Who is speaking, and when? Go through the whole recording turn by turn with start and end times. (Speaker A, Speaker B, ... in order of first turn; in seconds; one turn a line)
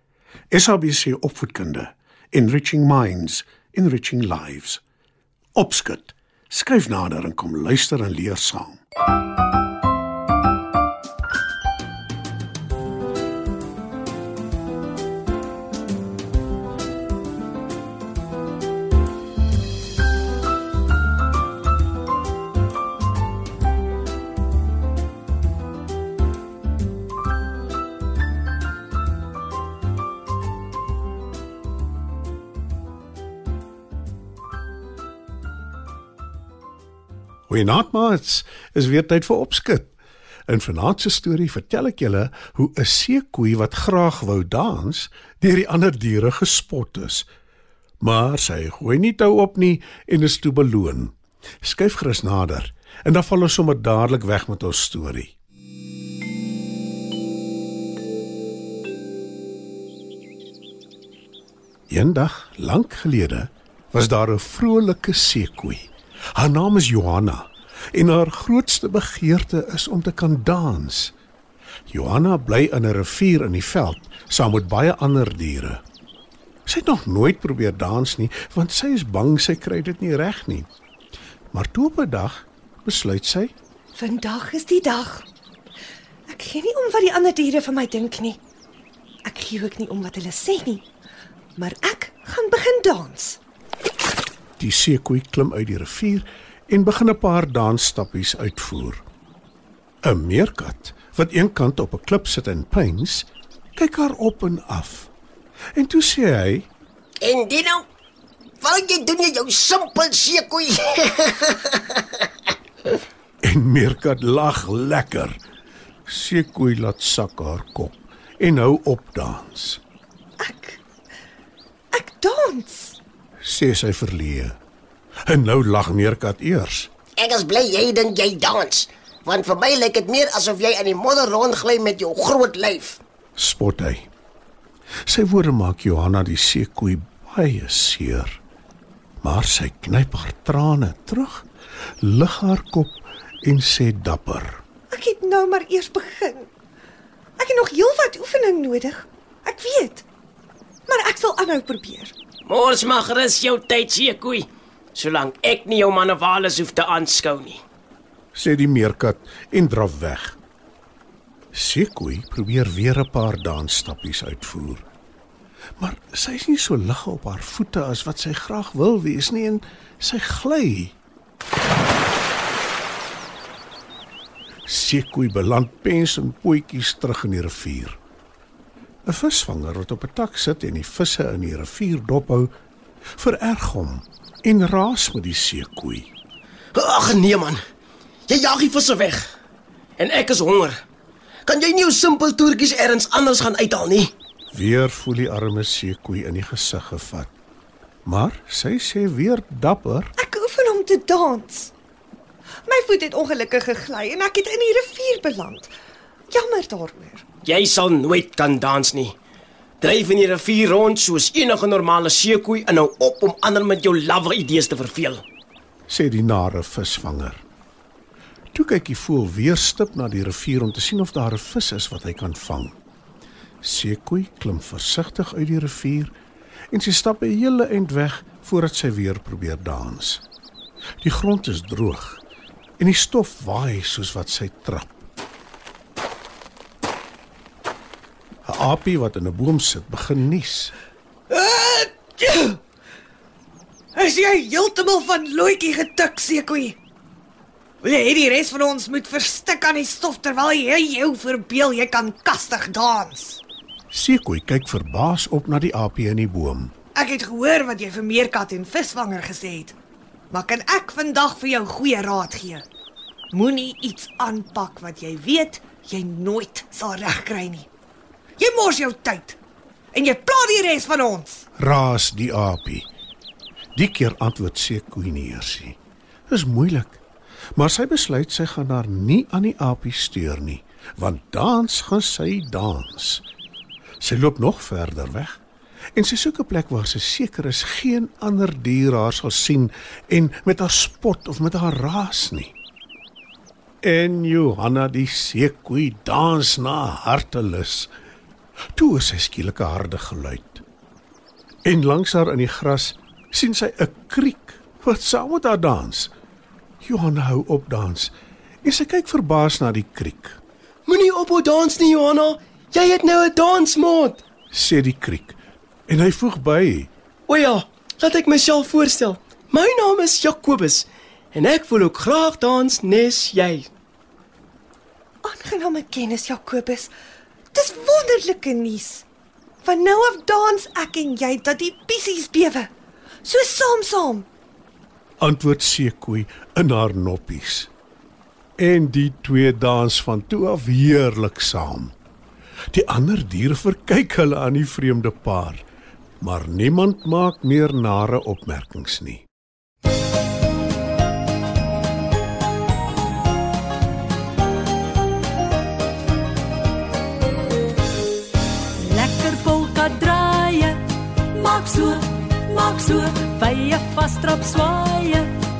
Speaker A: 0.5-4.8
Speaker A: 5.5-8.8
Speaker A: 37.5-39.9
Speaker A: 40.5-47.2
Speaker A: 48.0-55.3
Speaker A: 61.9-71.1
Speaker A: 71.9-75.8
Speaker A: 76.7-80.7
Speaker A: 81.5-83.5
Speaker B: 83.9-85.2
Speaker B: 86.3-88.4
Speaker B: 89.2-90.8
Speaker B: 91.5-93.4
Speaker A: 94.6-99.0
Speaker A: 100.0-105.1
Speaker A: 105.8-106.7
Speaker C: 107.2-107.9
Speaker C: 108.6-112.0
Speaker A: 113.4-115.4
Speaker A: 116.0-119.8
Speaker B: 120.4-120.8
Speaker B: 121.9-123.0
Speaker A: 123.4-124.5
Speaker A: 125.3-126.9
Speaker C: 127.2-133.0
Speaker A: 133.4-134.1
Speaker A: 135.1-138.4
Speaker A: 139.2-141.4
Speaker A: 142.0-144.6
Speaker B: 144.9-146.5
Speaker B: 147.4-150.0
Speaker B: 150.9-152.1
Speaker D: 152.5-157.6
Speaker A: 158.3-160.4
Speaker A: 161.5-164.8
Speaker A: 165.8-170.9
Speaker A: 174.7-178.0
Speaker A: 179.1-182.5
Speaker A: 183.2-186.1
Speaker D: 186.7-187.6
Speaker D: 188.3-189.3
Speaker D: 190.0-190.8
Speaker D: 191.5-194.1
Speaker A: 194.5-197.3
Speaker A: 198.1-200.1
Speaker B: 200.2-201.7
Speaker B: 202.7-205.7
Speaker B: 206.3-207.2
Speaker D: 207.4-209.2
Speaker D: 209.8-215.2
Speaker A: 215.9-217.4
Speaker A: 218.5-222.8
Speaker A: 223.6-226.1
Speaker A: 226.7-230.2
Speaker A: 231.0-232.2
Speaker A: 232.8-235.0
Speaker A: 238.4-240.7
Speaker B: 241.3-242.6
Speaker B: 243.9-246.8
Speaker B: 247.8-253.4
Speaker A: 253.9-256.7
Speaker B: 256.9-259.7
Speaker B: 260.3-262.6
Speaker B: 263.3-267.7
Speaker B: 268.4-269.4
Speaker B: 269.9-271.4
Speaker A: 271.6-272.9
Speaker A: 273.8-275.8
Speaker A: 276.3-277.0
Speaker A: 277.6-283.2
Speaker A: 284.0-285.4
Speaker A: 285.9-292.5
Speaker A: 293.8-297.9
Speaker A: 298.7-300.6
Speaker A: 301.6-306.1
Speaker A: 306.8-310.4
Speaker D: 310.9-314.2
Speaker A: 314.5-316.9
Speaker D: 317.3-323.7
Speaker B: 325.2-326.9
Speaker B: 327.5-329.1
Speaker B: 329.6-332.7
Speaker B: 333.2-334.3
Speaker A: 335.2-337.7
Speaker A: 338.6-341.9
Speaker A: 342.7-345.6
Speaker A: 346.2-349.2
Speaker E: 358.8-365.4